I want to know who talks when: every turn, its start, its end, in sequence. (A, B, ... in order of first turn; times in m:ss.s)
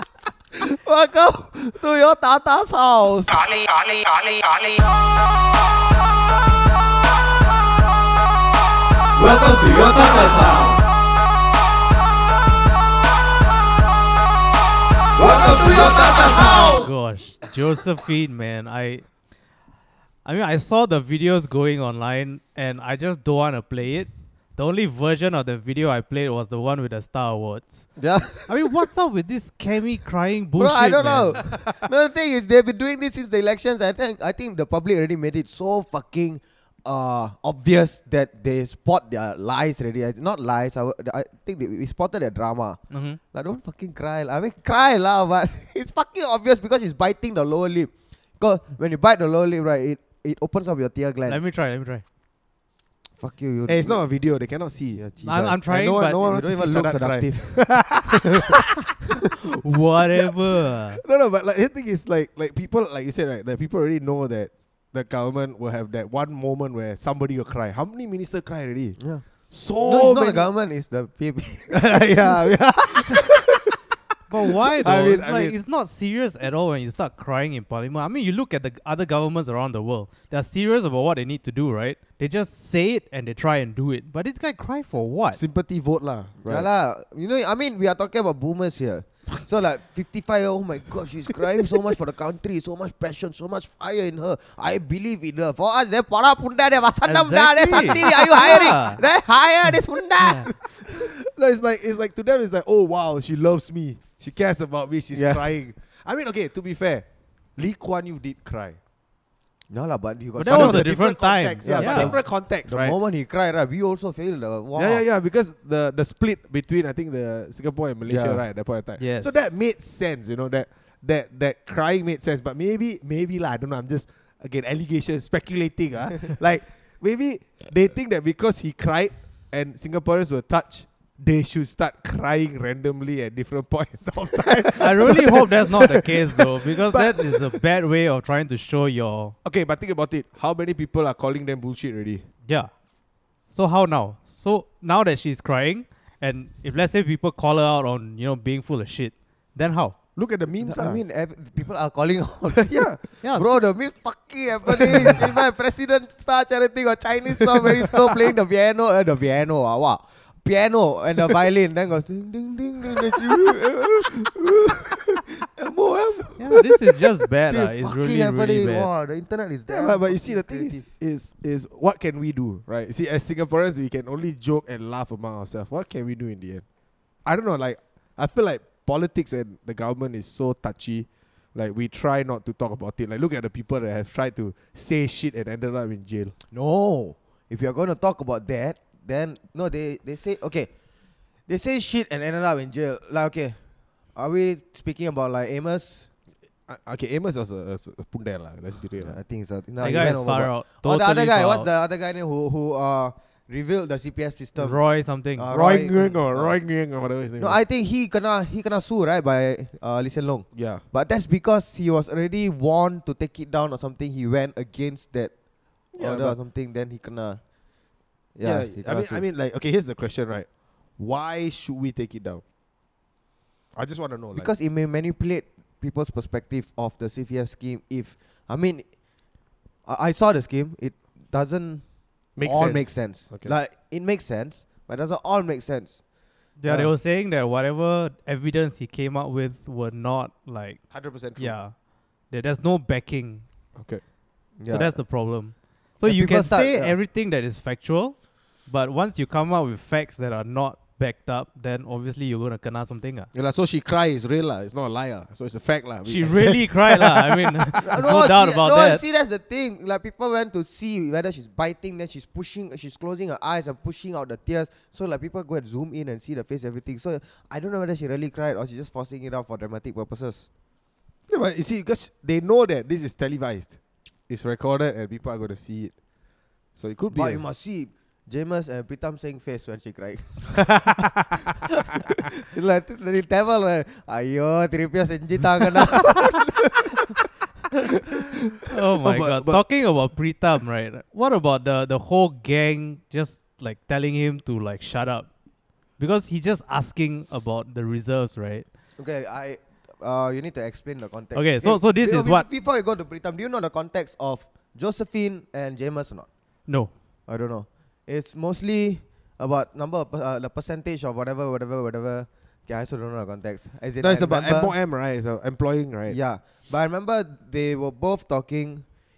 0:00.5-0:04.6 A
0:15.2-0:16.9 A
0:16.4-0:19.0 B
0:20.2-0:27.9 B
0:28.0-0:28.7 A
0:28.5-0:31.4 B
0:30.5-0:42.8 A
0:42.9-0:43.2 B
0:43.3-0:51.4 A
0:51.3-0:52.0 B
0:53.2-0:54.0 A
0:53.7-0:55.0 C
0:54.9-0:55.6 A
0:55.2-0:56.2 B
0:55.6-0:58.9 C
0:56.2-0:58.6 A
0:59.4-1:01.0 B
1:00.9-1:09.0 C
1:09.0-1:09.2 A
1:09.5-1:10.4 C
1:09.8-1:13.2 A
1:11.7-1:13.8 C
1:14.3-1:25.4 B
1:14.8-1:15.5 C
1:25.3-1:26.7 C
1:26.4-1:41.1 A
1:37.0-1:39.0 B
1:40.8-1:47.0 C
1:45.1-1:45.4 A
1:47.6-1:48.8 C
1:49.7-1:51.0 A
1:50.4-1:52.9 C
1:50.4-1:52.1 B
1:51.6-1:55.0 A
1:54.8-2:17.6 C
1:58.0-1:58.4 A
1:59.0-1:59.5 B
2:14.8-2:19.3 B
2:19.4-2:22.2 C
2:23.5-2:29.9 B
2:30.2-2:31.0 C
2:30.6-2:46.4 A
2:32.5-2:33.0 C
2:33.2-2:33.5 B
2:34.8-2:35.2 C
2:37.4-2:38.2 C
2:43.0-2:44.3 C
2:46.1-2:46.6 C
2:46.4-2:48.9 B
2:47.5-2:50.8 A
2:49.7-2:56.6 C
2:57.2-3:06.3 C
3:06.5-3:10.7 A
3:11.5-3:13.6 A
3:14.1-3:16.1 A
3:16.7-3:19.2 C
3:19.0-3:24.8 A
3:19.8-3:21.7 B
3:24.6-3:25.5 B
3:25.4-3:26.6 A
3:25.5-3:27.6 C
3:27.4-3:35.3 A
3:30.5-3:30.8 C
3:35.9-3:36.4 C
3:36.0-3:37.4 A
3:38.3-3:39.2 A
3:38.4-3:40.5 C
3:41.0-3:42.4 C
3:43.8-3:44.5 C
3:44.3-3:48.8 A
3:49.8-3:51.8 A
3:52.4-3:53.5 C
3:52.4-3:56.0 A
3:56.6-4:00.8 B
3:56.6-3:56.9 A
4:00.9-4:01.5 C
4:01.4-4:01.7 B
4:02.3-4:03.4 B
4:03.8-4:04.0 C
4:04.6-4:05.0 A
4:04.7-4:13.3 B
4:06.0-4:07.0 A
4:13.3-4:18.1 C
4:16.0-4:19.0 B
4:17.8-4:30.5 A
4:31.3-4:33.7 C
4:34.3-4:35.9 C
4:36.8-4:37.4 C
4:37.1-4:41.2 A
4:40.6-4:41.4 C
4:42.0-4:47.2 A
4:48.7-4:55.3 B
4:49.0-4:49.6 C
4:56.0-4:58.6 B
4:59.0-5:06.3 A
5:01.3-5:02.5 B
5:07.3-5:14.7 A
5:14.0-5:16.2 C
5:16.1-5:18.8 A